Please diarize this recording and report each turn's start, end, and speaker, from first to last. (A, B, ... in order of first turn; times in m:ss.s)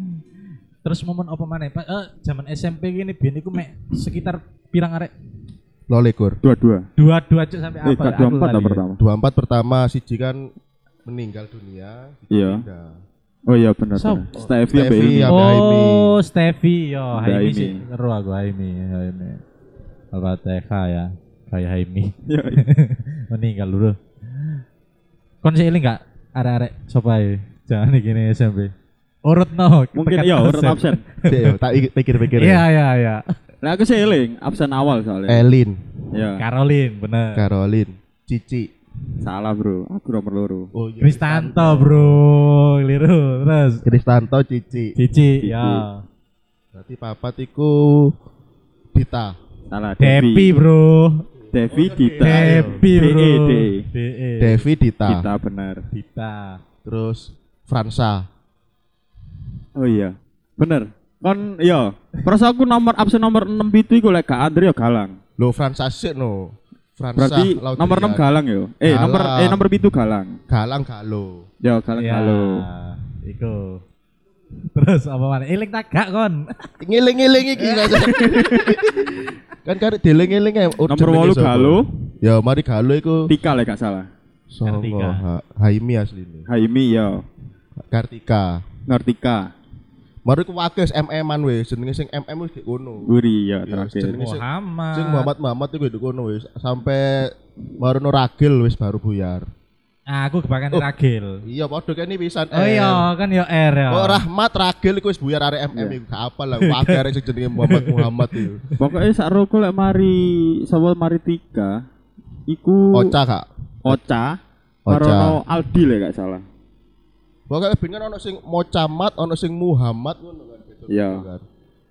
0:00.8-0:05.1 A
0:05.9-0:06.4 B
0:06.4-0:06.9 C
0:07.0-0:08.8 A
0:07.8-0:09.0 C
0:09.0-0:10.5 B
0:11.1-0:13.0 B
0:12.3-0:12.6 C
0:13.5-0:15.4 C
0:14.0-0:14.2 A
0:14.4-0:16.1 B
0:15.3-0:19.4 A
0:17.2-0:17.8 C
0:20.1-0:24.5 A
0:22.3-0:22.6 C
0:25.4-0:28.7 A
0:29.3-0:31.6 A
0:30.0-0:31.0 C
0:31.3-0:32.6 B
0:32.3-0:33.3 A
0:33.6-0:35.5 C
0:35.3-0:35.8 B
0:36.1-0:36.4 C
0:36.4-0:37.4 A
0:37.4-0:38.7 B
0:39.2-0:40.7 C
0:40.7-0:42.2 B
0:41.0-0:43.9 A
0:43.8-0:45.0 B
0:45.0-0:46.0 A
0:45.4-0:45.9 C
0:46.7-0:48.1 B
0:48.9-0:49.4 B
0:49.7-0:50.5 C
0:50.0-0:51.2 A
0:51.5-0:53.9 C
0:51.7-0:52.8 B
0:52.2-0:54.7 A
0:54.4-0:55.3 B
0:55.1-0:55.8 C
0:55.9-0:56.6 A
0:56.8-0:58.3 B
0:59.8-1:05.2 C
1:05.4-1:08.2 B
1:07.2-1:10.4 C
1:08.8-1:09.6 B
1:10.5-1:11.4 B
1:11.6-1:12.6 C
1:12.0-1:13.8 A
1:14.7-1:16.7 A
1:16.8-1:23.3 B
1:17.9-1:18.8 C
1:20.9-1:21.9 C
1:23.3-1:24.1 C
1:24.5-1:26.5 B
1:24.7-1:25.2 A
1:26.5-1:27.2 C
1:27.9-1:28.6 B
1:28.9-1:29.5 C
1:30.3-1:39.5 B
1:33.1-1:34.2 C
1:34.2-1:35.3 A
1:40.1-1:41.4 A
1:41.4-1:43.1 B
1:42.5-1:44.2 A
1:43.9-1:48.6 B
1:46.6-1:48.8 A
1:48.8-1:51.8 C
1:52.5-1:53.2 C
1:52.9-1:54.0 B
1:53.8-1:56.4 C
1:54.9-1:55.4 B
1:57.5-2:01.4 B
2:00.9-2:01.2 C